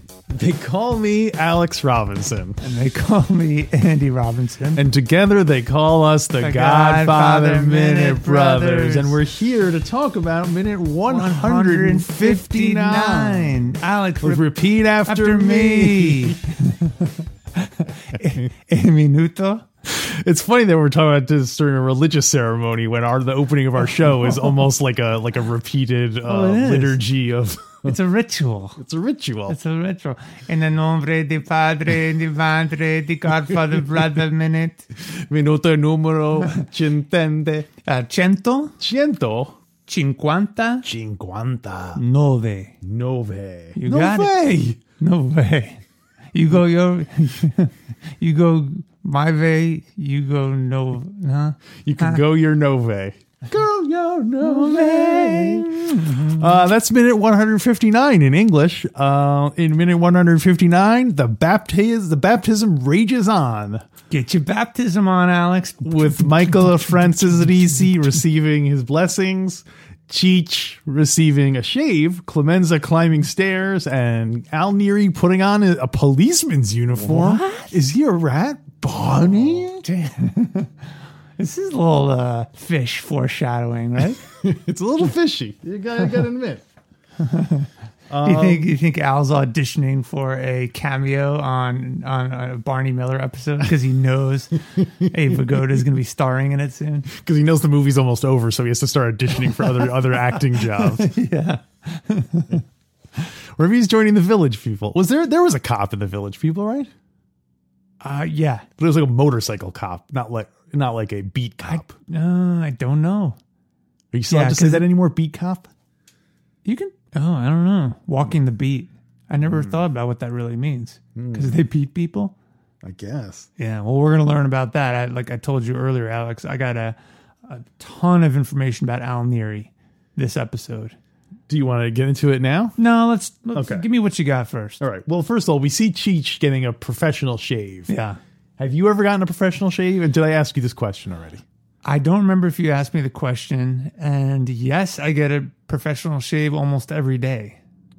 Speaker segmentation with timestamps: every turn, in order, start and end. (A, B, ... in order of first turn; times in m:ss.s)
0:00.3-0:02.6 A
0:02.6-0:04.9 B
0:04.8-0:13.6 A
0:06.4-0:09.2 B
0:11.1-0:14.5 B
0:14.2-0:16.4 A
0:15.0-0:19.6 B
0:19.8-0:28.0 A
0:26.3-0:27.0 B
0:27.8-0:28.8 B
0:28.8-0:29.6 A
0:29.5-0:34.9 B
0:35.0-0:37.7 A
0:37.8-0:38.8 B
0:38.8-0:39.6 A
0:39.9-0:40.9 B
0:40.8-0:42.0 A
0:42.0-0:42.7 B
0:42.8-0:44.8 A
0:43.8-0:44.4 B
0:45.0-0:45.8 B
0:46.3-0:52.2 B
0:51.8-1:03.8 A
0:54.4-0:56.6 B
1:04.1-1:08.0 B
1:05.8-1:19.8 A
1:17.0-1:17.8 B
1:19.8-1:20.7 B
1:21.4-1:24.2 B
1:24.2-1:26.6 A
1:27.2-1:27.7 B
1:28.1-1:28.7 A
1:28.2-1:37.1 B
1:35.0-1:35.4 A
1:37.1-1:41.1 A
1:39.4-1:42.6 B
1:43.6-1:46.9 A
1:48.0-1:48.7 B
1:48.8-1:51.9 A
1:51.6-1:53.4 B
1:54.1-1:55.7 A
1:54.3-1:54.9 B
1:56.6-2:02.3 B
1:59.4-1:59.8 A
2:01.2-2:01.6 A
2:02.8-2:03.5 A
2:03.6-2:11.0 B
2:11.5-2:12.8 A
2:12.8-2:14.8 B
2:13.6-2:13.8 A
2:14.8-2:17.9 A
2:17.9-2:18.2 B
2:18.6-2:21.4 A
2:21.8-2:27.6 B